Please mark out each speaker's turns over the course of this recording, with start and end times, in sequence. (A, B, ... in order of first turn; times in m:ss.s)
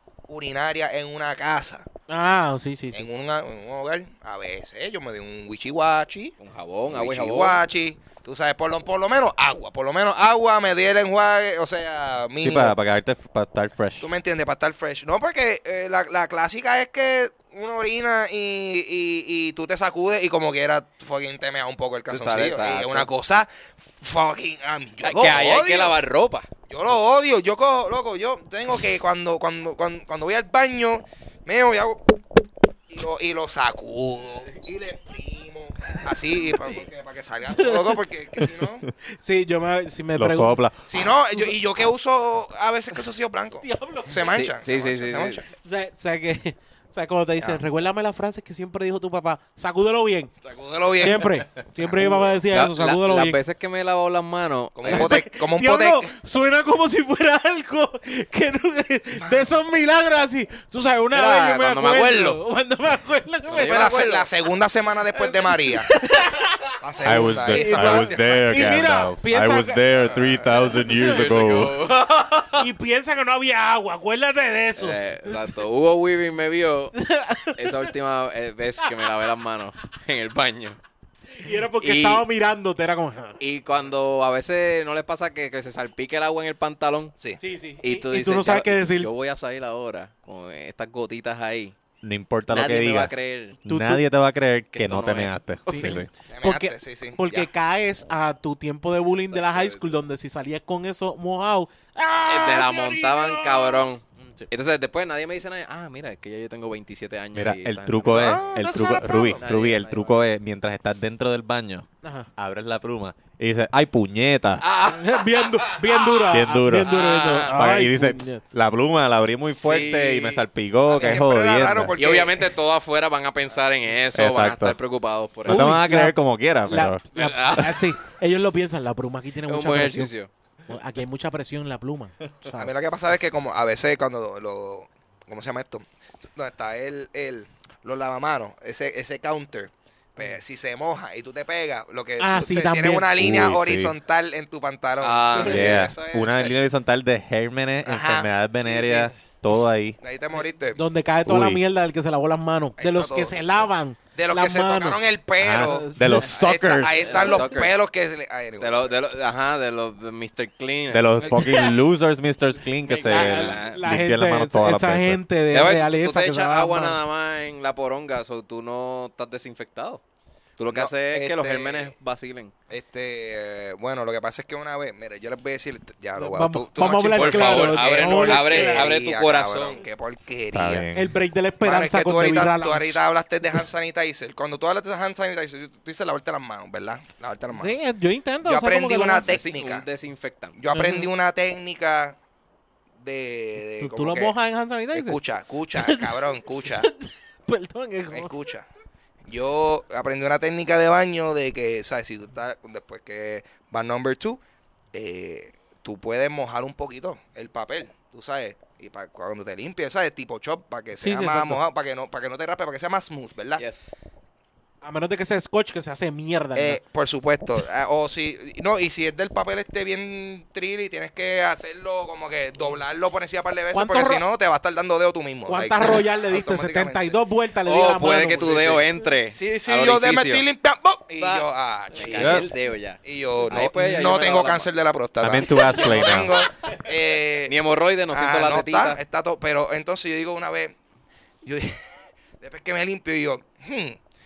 0:00.3-0:01.8 A
0:02.1-0:03.1 B
0:02.9-0:06.4 A
0:06.4-0:07.6 C
0:06.9-0:12.7 A
0:12.4-0:14.1 D
0:14.0-0:26.0 A
0:22.1-0:23.1 C
0:25.0-0:26.5 C
0:26.7-0:32.0 A
0:32.9-0:38.9 A
0:36.6-0:36.9 C
0:37.5-0:38.6 B
0:39.2-0:40.6 B
0:40.2-0:40.8 D
0:40.9-0:45.4 A
0:43.6-0:44.4 B
0:44.2-0:45.4 C
0:45.6-0:50.3 B
0:50.4-0:52.2 A
0:51.0-0:53.4 B
0:52.4-0:55.2 C
0:54.8-0:56.1 A
0:54.8-1:03.9 B
0:59.2-0:59.5 A
1:01.1-1:02.4 C
1:03.5-1:04.3 C
1:03.5-1:05.9 A
1:05.2-1:10.1 B
1:06.8-1:08.3 A
1:07.0-1:11.8 D
1:10.0-1:10.7 A
1:10.9-1:12.7 C
1:12.6-1:15.5 B
1:14.8-1:17.0 C
1:16.9-1:17.9 B
1:17.5-1:20.8 C
1:21.4-1:23.4 B
1:21.8-1:22.2 C
1:23.4-1:27.2 C
1:27.4-1:29.1 B
1:27.8-1:31.7 C
1:32.0-1:33.1 D
1:32.5-1:33.6 C
1:33.6-1:36.1 D
1:33.6-1:34.0 B
1:34.7-1:35.4 C
1:35.7-1:43.8 B
1:36.3-1:37.5 A
1:39.3-1:39.8 C
1:42.3-1:48.6 C
1:47.3-1:54.6 D
1:48.0-1:49.4 A
1:49.3-1:50.2 C
1:52.0-1:52.3 B
1:54.6-1:56.2 C
1:54.8-1:58.4 B
1:56.3-2:01.9 D
1:56.9-1:57.6 C
1:59.5-2:00.4 C
2:00.9-2:02.5 A
2:02.0-2:05.6 C
2:04.1-2:04.8 D
2:05.4-2:07.0 D
2:05.5-2:06.2 B
2:06.7-2:10.1 B
2:07.1-2:07.9 C
2:09.5-2:10.3 C
2:10.7-2:12.7 B
2:12.5-2:26.5 A
2:22.2-2:23.1 B
2:23.2-2:23.9 D
2:25.0-2:25.9 C
2:25.4-2:30.0 D
2:27.8-2:29.1 A
2:30.0-2:30.8 A
2:30.8-2:35.0 B
2:31.2-2:31.6 D
2:32.8-2:33.4 A
2:34.1-2:38.9 A
2:35.4-2:37.3 D
2:35.5-2:36.3 B
2:37.0-2:37.7 C
2:38.6-2:41.6 C
2:40.9-2:45.2 D
2:41.3-2:41.7 B
2:42.8-2:43.8 C
2:43.1-2:47.0 B
2:45.5-2:50.0 C
2:50.6-2:52.5 C
2:50.7-2:51.9 A
2:52.7-3:00.8 A
2:56.2-2:58.9 B
2:57.1-2:59.8 C
3:00.5-3:01.1 D
3:00.9-3:03.0 B
3:01.6-3:07.8 A
3:07.5-3:09.3 B
3:08.4-3:09.8 A
3:09.2-3:10.6 C
3:10.6-3:12.2 A
3:10.7-3:11.1 B
3:13.0-3:14.3 A
3:13.8-3:15.2 B
3:14.9-3:16.9 A
3:15.7-3:18.3 B
3:18.1-3:18.7 A
3:19.3-3:24.4 A
3:24.9-3:33.6 A
3:31.0-3:31.6 B
3:33.6-3:33.9 C
3:34.8-3:36.8 B
3:36.6-3:47.2 A
3:43.7-3:44.2 B
3:45.5-3:48.8 B
3:47.6-3:50.4 C
3:49.3-3:52.5 A
3:51.2-3:54.7 C
3:52.1-3:52.5 D
3:53.0-3:57.6 A
3:55.2-3:56.5 D
3:57.5-3:59.0 C
3:58.1-4:00.7 A
4:01.4-4:01.8 A
4:02.4-4:04.0 A